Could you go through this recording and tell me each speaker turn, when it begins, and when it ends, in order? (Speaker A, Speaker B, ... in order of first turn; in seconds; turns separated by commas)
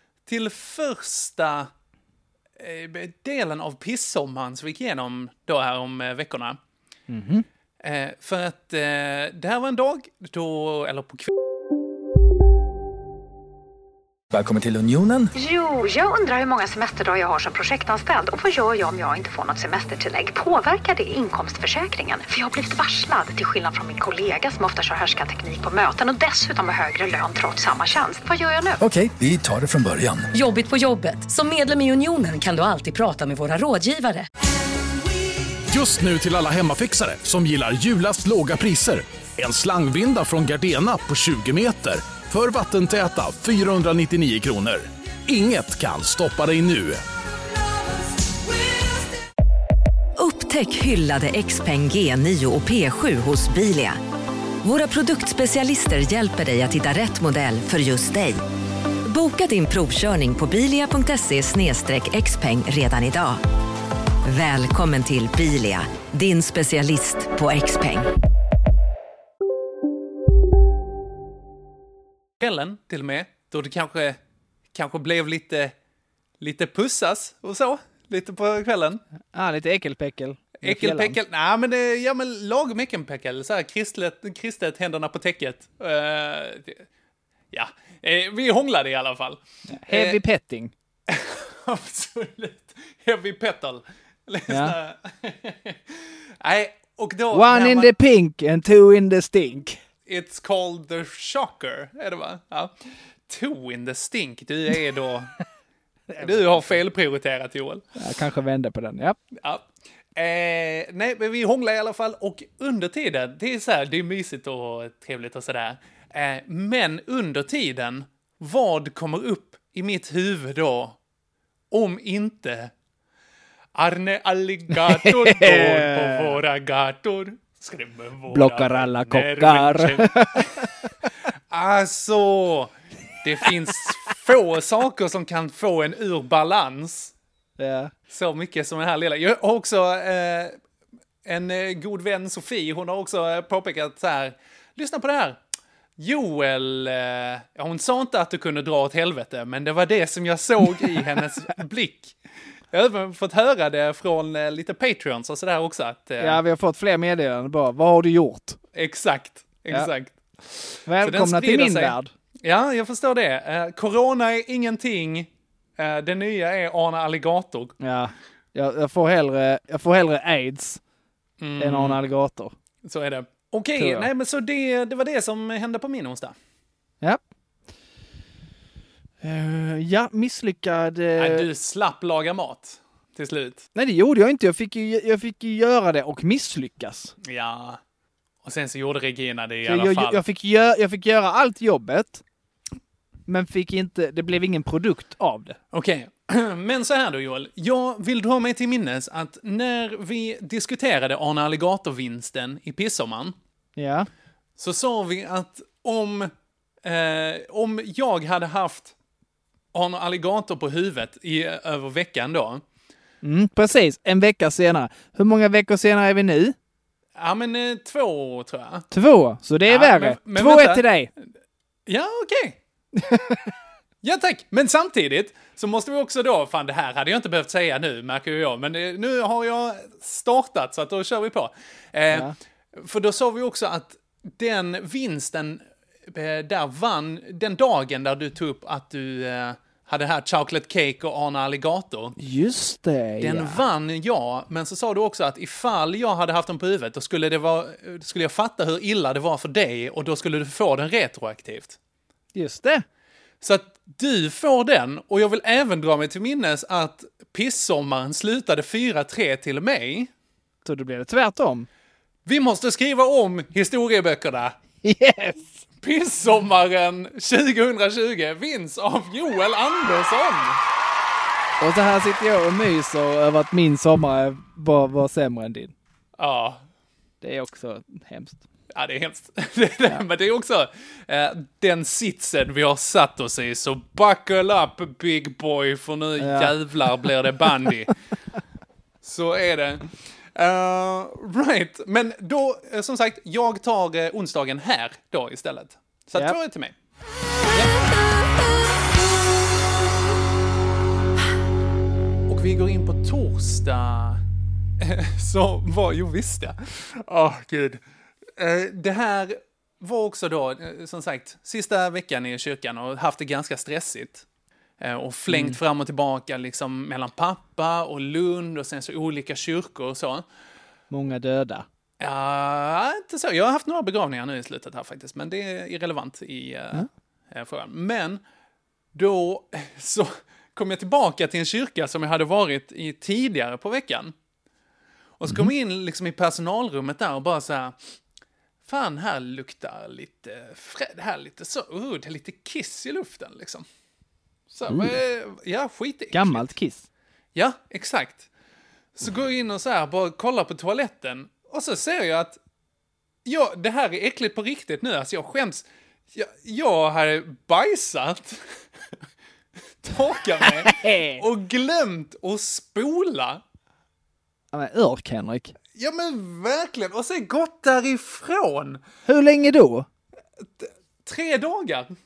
Speaker A: 0.3-1.7, Speaker A: 2.6-6.6, Speaker B: 7.1-7.5, Speaker A: 7.8-11.3, Speaker C: 14.3-15.3, Speaker D: 15.3-28.8, Speaker C: 28.8-30.3, Speaker E: 30.3-34.3, Speaker F: 35.7-47.0, Speaker G: 50.2-54.0, Speaker G: 54.6-58.4, Speaker G: 59.0-63.4, Speaker G: 64.2-68.1, Speaker A: 72.4-74.2, Speaker A: 74.7-75.7, Speaker A: 76.4-79.0, Speaker B: 79.3-81.2, Speaker A: 80.6-86.9, Speaker A: 87.5-90.2, Speaker B: 89.7-90.7, Speaker A: 91.1-97.9, Speaker B: 94.5-94.8, Speaker B: 97.3-99.8, Speaker A: 100.0-102.7, Speaker A: 103.3-105.3, Speaker B: 106.1-106.8, Speaker A: 106.2-107.9, Speaker B: 108.0-109.2, Speaker A: 109.4-121.0, Speaker A: 121.7-122.7, Speaker A: 123.7-130.7, Speaker B: 124.8-126.4, Speaker B: 128.3-130.7, Speaker A: 131.5-137.1, Speaker B: 137.6-137.9, Speaker A: 138.1-140.6, Speaker A: 141.2-145.4, Speaker A: 146.0-152.2, Speaker A: 152.7-156.4, Speaker B: 156.2-158.6, Speaker A: 158.7-167.7, Speaker B: 160.9-162.1, Speaker B: 167.8-170.8, Speaker A: 171.4-172.0, Speaker B: 171.6-172.5, Speaker A: 172.8-176.4, Speaker B: 173.8-174.1, Speaker B: 179.2-181.5, Speaker A: 181.2-183.6, Speaker B: 183.7-187.1, Speaker A: 187.2-187.8, Speaker A: 188.4-190.2, Speaker B: 189.6-192.2, Speaker B: 193.3-195.6, Speaker A: 195.7-203.4, Speaker B: 203.8-204.1, Speaker A: 204.6-206.3, Speaker A: 206.8-208.9, Speaker A: 209.7-212.6, Speaker B: 213.2-216.6, Speaker A: 217.1-218.9, Speaker B: 218.9-221.1, Speaker A: 219.7-220.9, Speaker A: 221.9-222.6, Speaker B: 223.0-223.4, Speaker A: 224.0-242.1, Speaker B: 242.2-243.6, Speaker A: 243.2-251.8, Speaker B: 252.3-252.8, Speaker A: 253.4-260.1, Speaker B: 260.6-261.7, Speaker A: 262.2-264.6, Speaker B: 264.8-265.6, Speaker A: 265.8-270.6, Speaker B: 271.6-275.7, Speaker A: 276.2-276.6, Speaker B: 277.2-278.4, Speaker A: 278.7-287.9, Speaker B: 286.2-286.6, Speaker A: 289.0-296.7, Speaker A: 302.3-304.2, Speaker A: 304.8-307.8, Speaker A: 308.4-314.2, Speaker A: 314.8-320.2, Speaker B: 315.3-315.6, Speaker B: 320.9-321.7, Speaker A: 322.0-328.2, Speaker A: 328.9-334.1, Speaker A: 335.2-337.8, Speaker A: 338.6-343.7, Speaker A: 344.5-346.5, Speaker B: 344.7-344.9, Speaker B: 346.1-346.9, Speaker A: 347.3-348.3, Speaker A: 348.9-352.4, Speaker A: 353.2-358.4, Speaker A: 359.8-363.4, Speaker B: 360.6-361.2, Speaker B: 364.5-365.6, Speaker A: 365.7-368.8, Speaker B: 369.1-369.9, Speaker A: 370.4-371.9